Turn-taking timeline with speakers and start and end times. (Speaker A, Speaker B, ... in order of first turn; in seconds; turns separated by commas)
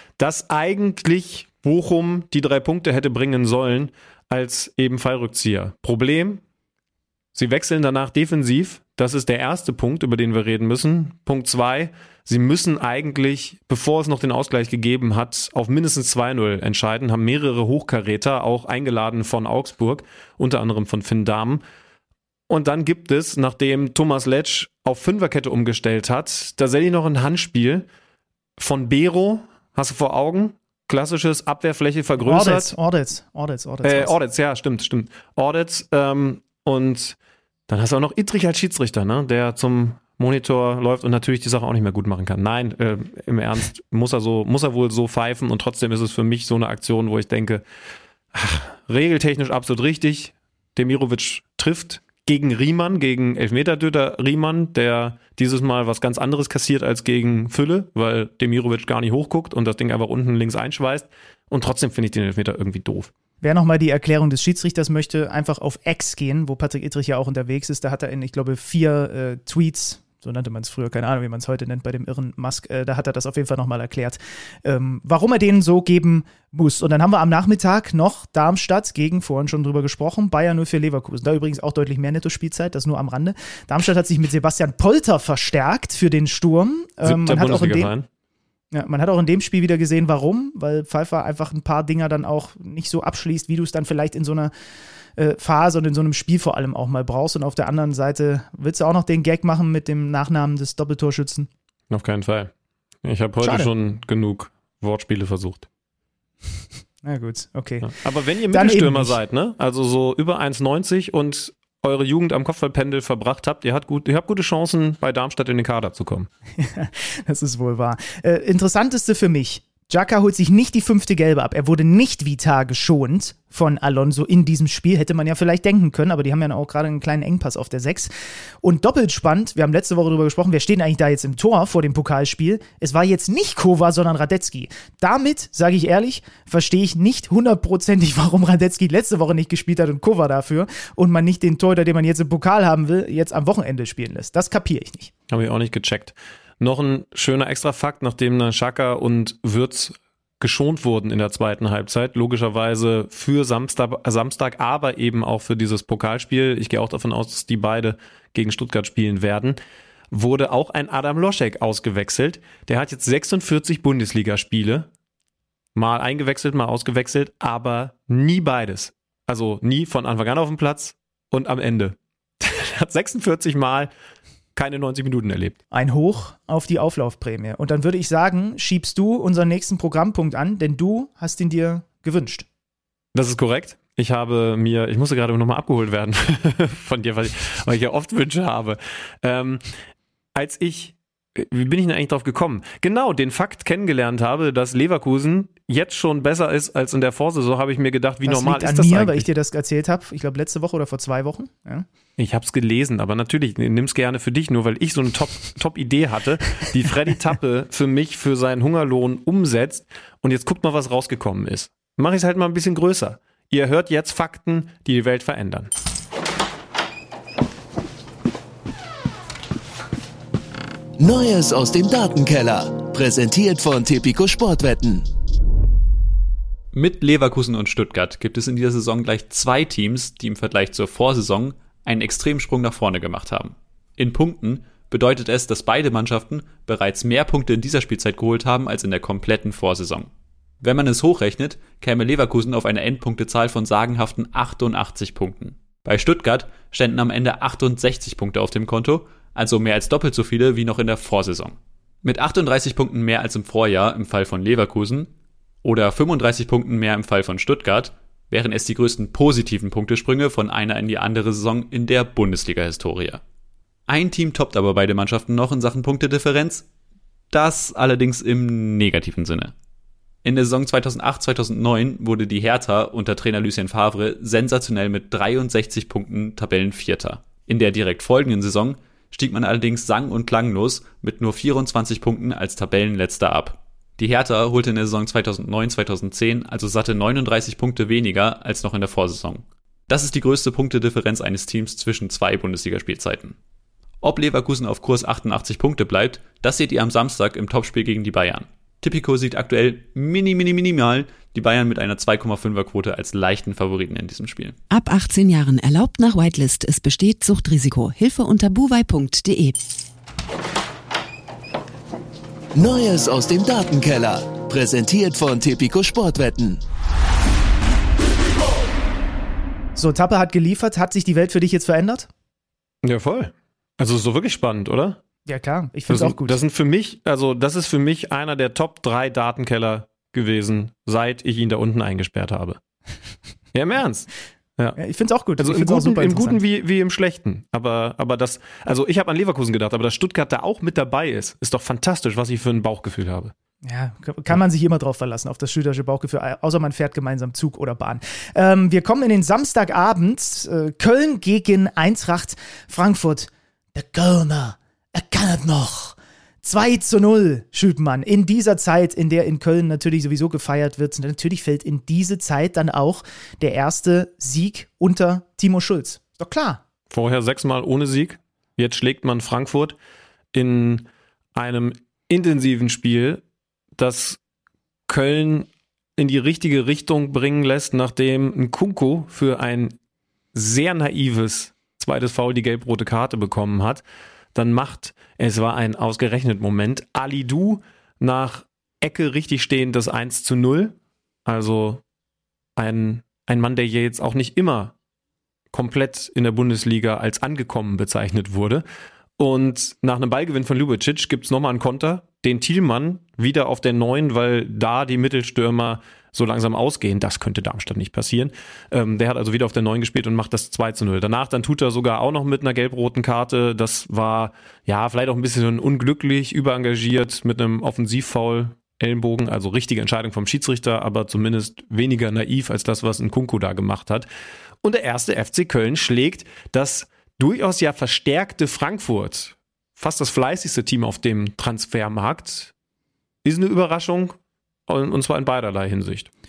Speaker A: 0.2-6.4, Speaker A: 7.3-21.6, Speaker A: 22.5-27.9, Speaker A: 28.6-32.8, Speaker B: 32.2-34.1, Speaker A: 33.8-37.2, Speaker A: 37.7-47.6, Speaker A: 48.3-63.1, Speaker B: 63.4-87.9, Speaker A: 87.0-88.1, Speaker B: 88.7-94.5, Speaker B: 95.2-101.5, Speaker A: 101.9-102.5, Speaker A: 103.0-105.7, Speaker B: 103.4-103.7, Speaker B: 107.0-107.9, Speaker A: 107.9-116.3, Speaker B: 108.5-109.2, Speaker B: 116.6-145.1, Speaker A: 145.3-159.6, Speaker A: 160.1-164.9, Speaker A: 165.8-173.9, Speaker A: 174.6-175.6, Speaker B: 175.7-182.5, Speaker A: 183.2-189.6, Speaker A: 190.3-199.3, Speaker B: 198.2-201.9, Speaker A: 202.2-215.7, Speaker C: 221.0-225.1, Speaker D: 226.7-263.2, Speaker D: 263.9-266.7, Speaker D: 267.3-269.5, Speaker D: 270.2-293.4, Speaker D: 294.0-304.6, Speaker E: 304.7-309.6, Speaker C: 312.6-316.6, Speaker B: 319.8-322.1, Speaker A: 322.8-325.0, Speaker B: 325.3-326.4, Speaker A: 325.9-332.6, Speaker A: 333.5-334.8, Speaker B: 334.8-336.4, Speaker A: 335.4-343.3, Speaker B: 343.6-366.6, Speaker A: 366.9-369.8, Speaker A: 370.3-373.2, Speaker A: 373.8-374.2, Speaker A: 374.9-379.7, Speaker A: 380.3-383.8, Speaker A: 384.4-390.8, Speaker A: 391.3-391.8, Speaker A: 392.6-394.7, Speaker A: 395.5-398.6, Speaker A: 399.2-424.1, Speaker A: 424.6-432.5, Speaker A: 433.2-434.2, Speaker A: 434.7-436.1